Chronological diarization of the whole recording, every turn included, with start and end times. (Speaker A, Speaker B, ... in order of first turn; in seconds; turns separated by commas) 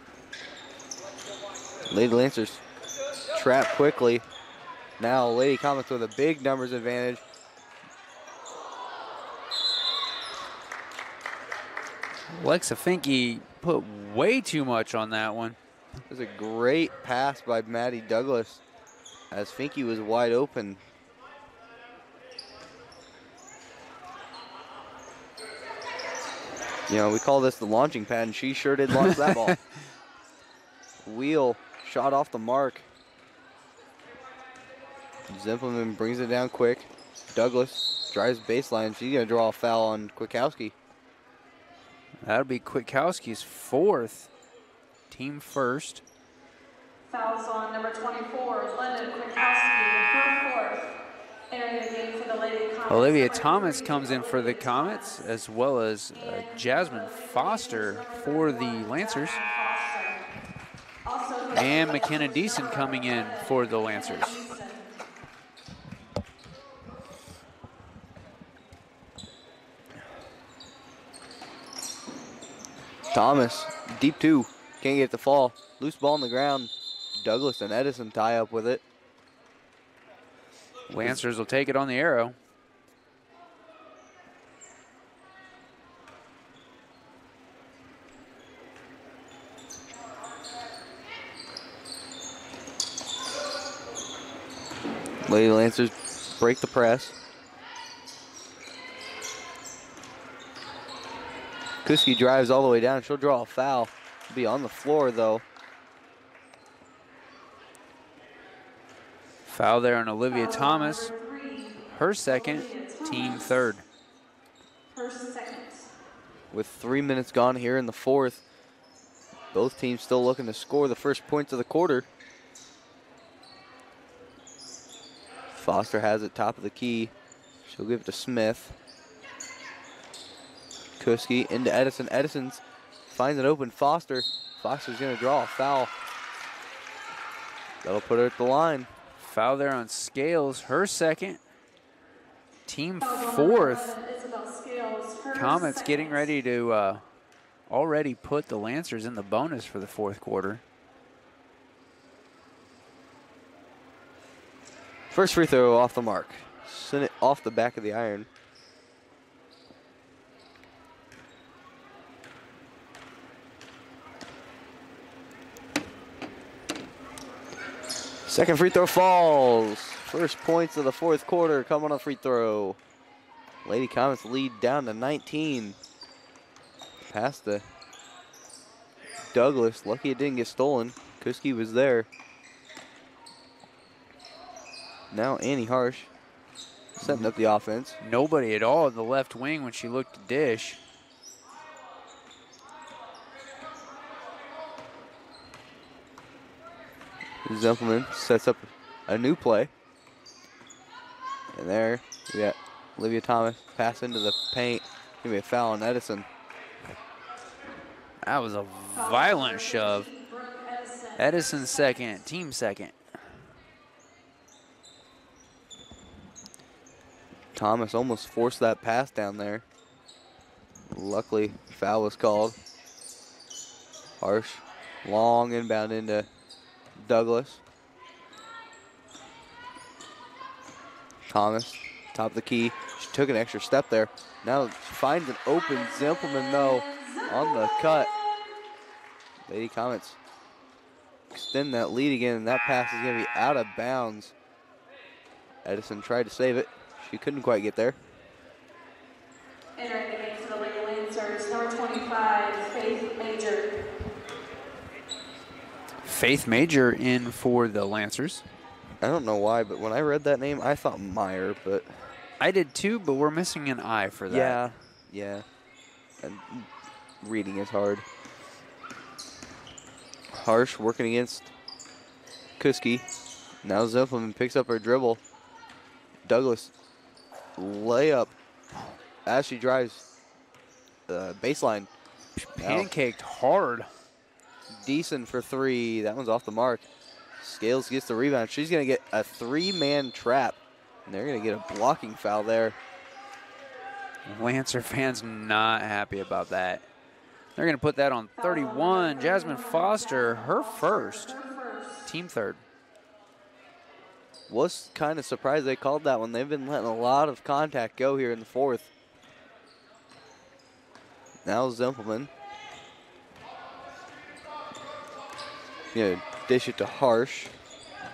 Speaker A: 1.9-2.6, Speaker A: 3.3-4.2, Speaker A: 5.0-7.2, Speaker B: 12.3-15.6, Speaker A: 16.1-18.6, Speaker A: 19.3-20.8, Speaker A: 26.9-29.6, Speaker B: 29.0-29.6, Speaker A: 31.1-32.9, Speaker A: 35.3-40.8, Speaker B: 42.2-44.3, Speaker B: 45.1-46.0, Speaker C: 47.1-50.9, Speaker C: 51.5-55.3, Speaker B: 52.9-59.4, Speaker C: 56.1-60.2, Speaker C: 61.0-64.9, Speaker B: 61.5-64.5, Speaker A: 73.1-78.8, Speaker B: 80.9-82.4, Speaker A: 80.9-81.2, Speaker A: 95.3-97.2, Speaker A: 101.8-105.4, Speaker B: 109.5-111.1, Speaker C: 110.3-113.6, Speaker B: 111.9-113.8, Speaker C: 114.9-115.9, Speaker A: 116.5-118.4, Speaker A: 119.5-122.1, Speaker A: 125.5-127.1, Speaker A: 127.7-128.8, Speaker A: 131.0-135.9, Speaker A: 137.8-138.9, Speaker B: 139.2-141.4, Speaker B: 142.7-143.9, Speaker C: 143.0-146.3, Speaker B: 145.3-147.0, Speaker B: 147.7-150.6, Speaker A: 155.1-158.3, Speaker A: 168.3-172.8, Speaker A: 173.7-175.8, Speaker A: 177.1-177.7, Speaker A: 179.3-182.1, Speaker A: 185.1-186.1, Speaker A: 187.0-188.0, Speaker B: 188.0-190.8, Speaker A: 197.4-199.7, Speaker A: 201.5-206.3, Speaker B: 208.2-210.1, Speaker C: 209.0-212.2, Speaker B: 211.2-213.0, Speaker A: 217.5-219.7, Speaker A: 220.9-222.6, Speaker A: 224.2-226.3, Speaker A: 227.0-227.6, Speaker A: 231.3-238.1, Speaker C: 236.3-237.4, Speaker A: 239.5-240.2, Speaker A: 241.3-244.3, Speaker A: 245.6-248.0, Speaker C: 249.8-253.7, Speaker B: 256.1-258.4, Speaker A: 259.0-261.9, Speaker B: 262.4-264.7, Speaker A: 264.3-265.4, Speaker A: 266.2-266.7, Speaker A: 267.2-268.1, Speaker A: 270.3-271.5, Speaker A: 272.6-273.1, Speaker A: 273.6-275.2, Speaker A: 276.2-276.7, Speaker A: 277.6-278.3, Speaker A: 279.3-280.1, Speaker A: 281.1-281.9, Speaker B: 282.4-283.9, Speaker A: 282.6-282.9, Speaker A: 284.8-292.8, Speaker B: 294.3-296.9, Speaker B: 297.6-301.3, Speaker C: 298.4-302.1, Speaker B: 302.1-302.6, Speaker A: 304.5-308.9, Speaker A: 311.5-312.3, Speaker A: 315.9-317.5